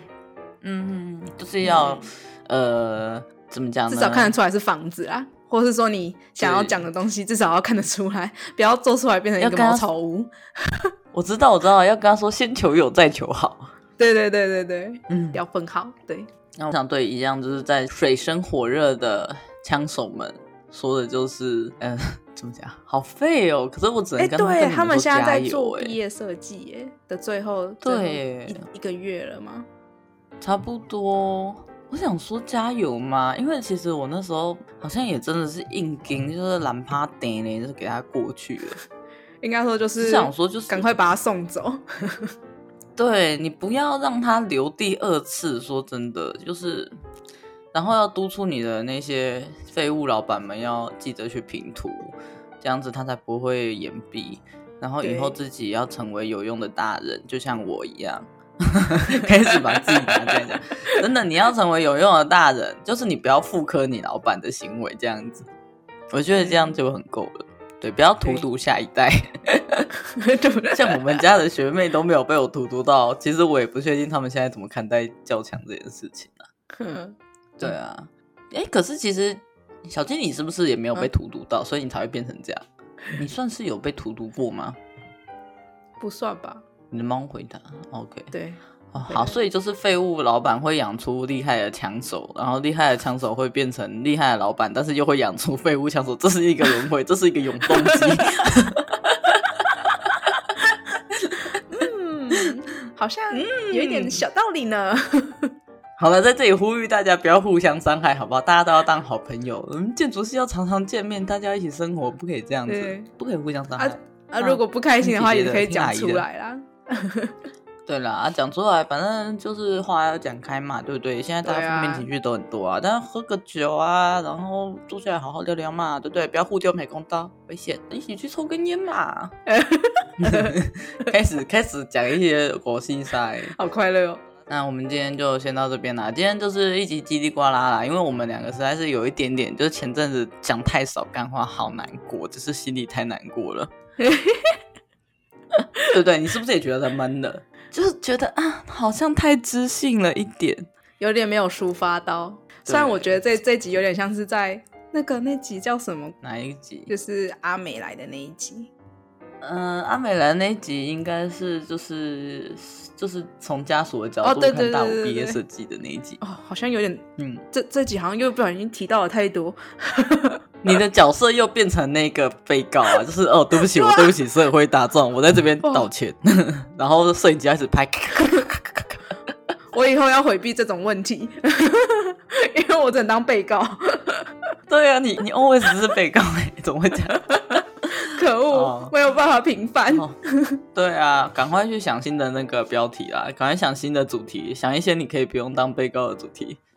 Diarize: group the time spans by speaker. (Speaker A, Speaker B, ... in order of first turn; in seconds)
Speaker A: 0.6-4.3, 6.4-6.8, 9.4-9.9, 11.1-13.7, 15.1-15.4, 16.6-25.9, 27.8-28.6, 30.4-38.8, 40.0-40.9, 43.0-46.9, 47.7-65.5, 66.1-69.9, 70.7-76.5, 77.6-84.8, 86.9-88.3, 88.9-99.9, 101.1-101.8, 103.3-104.2, 106.0-116.2, 117.8-129.3, 130.2-133.6, 134.5-143.7, 145.8-150.7, 152.7-153.4, 156.2-156.9, 159.4-166.2, 167.2-167.4, 170.6-179.0, 184.7-188.9, 189.9-190.2, 190.7-196.6
Speaker B: 1.6-2.0, 3.9-10.9, 14.0-16.3, 24.2-29.7, 39.4-42.3, 55.0-55.4, 66.3-66.7, 70.0-71.2, 76.8-77.7, 86.0-86.6, 88.3-89.3, 97.6-98.4, 101.7-105.5, 112.7-113.1, 113.8-117.4, 121.4-122.0, 129.4-130.6, 133.5-134.2, 144.0-144.6, 151.0-156.2, 156.9-158.7, 164.2-165.4, 166.2-170.4, 173.8-174.1, 179.7-184.5, 187.1-190.6